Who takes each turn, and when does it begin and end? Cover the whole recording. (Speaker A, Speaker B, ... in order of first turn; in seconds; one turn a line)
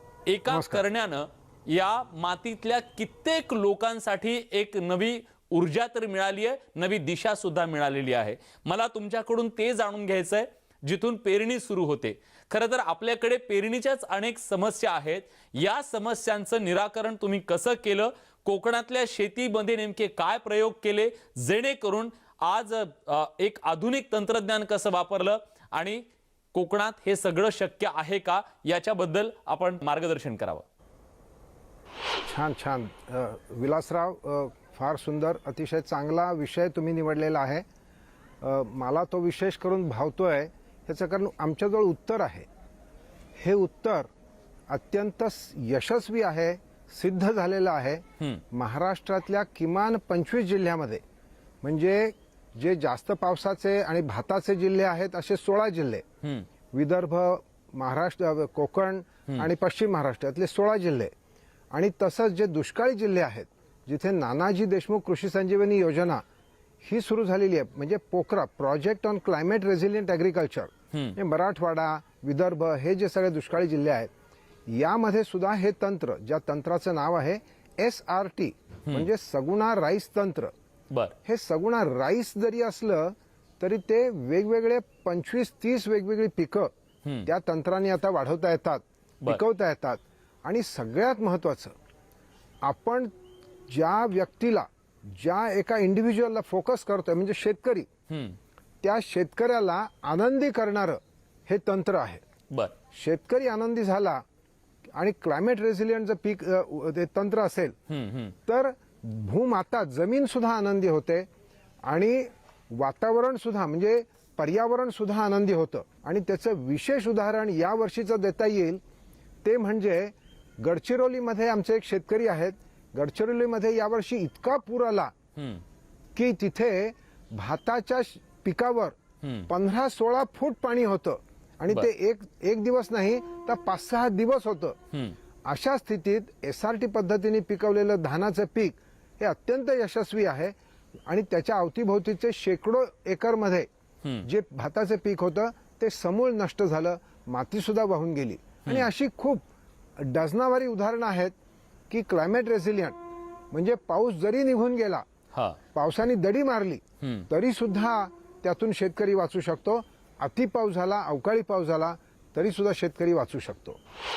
Speaker A: 0.3-30.6
Speaker B: 0.5-0.8
Speaker B: 32.3-37.6
Speaker B: 38.4-42.5
Speaker B: 43.4-44.1
Speaker B: 44.7-51.0
Speaker B: 51.6-56.0
Speaker A: 56.2-56.5
Speaker B: 56.7-61.1
Speaker B: 61.7-66.2
Speaker B: 66.8-74.1
Speaker A: 70.9-71.2
Speaker B: 74.7-80.5
Speaker A: 80.9-81.2
Speaker B: 81.2-86.7
Speaker B: 87.2-91.7
Speaker B: 92.6-93.1
Speaker B: 93.7-97.9
Speaker A: 98.1-98.4
Speaker B: 98.8-102.2
Speaker B: 102.9-104.2
Speaker B: 105.0-107.8
Speaker A: 107.9-108.3
Speaker B: 108.5-111.3
Speaker B: 111.8-118.8
Speaker B: 119.4-125.1
Speaker A: 125.4-125.6
Speaker B: 126.2-128.9
Speaker A: 129.2-129.5
Speaker B: 129.5-134.8
Speaker B: 135.5-140.5
Speaker B: 141.1-143.7
Speaker B: 144.2-149.4
Speaker B: 150.0-151.3
Speaker B: 151.9-153.0
Speaker B: 153.5-155.0
Speaker A: 155.3-155.6
Speaker B: 155.7-163.8
Speaker A: 157.0-157.3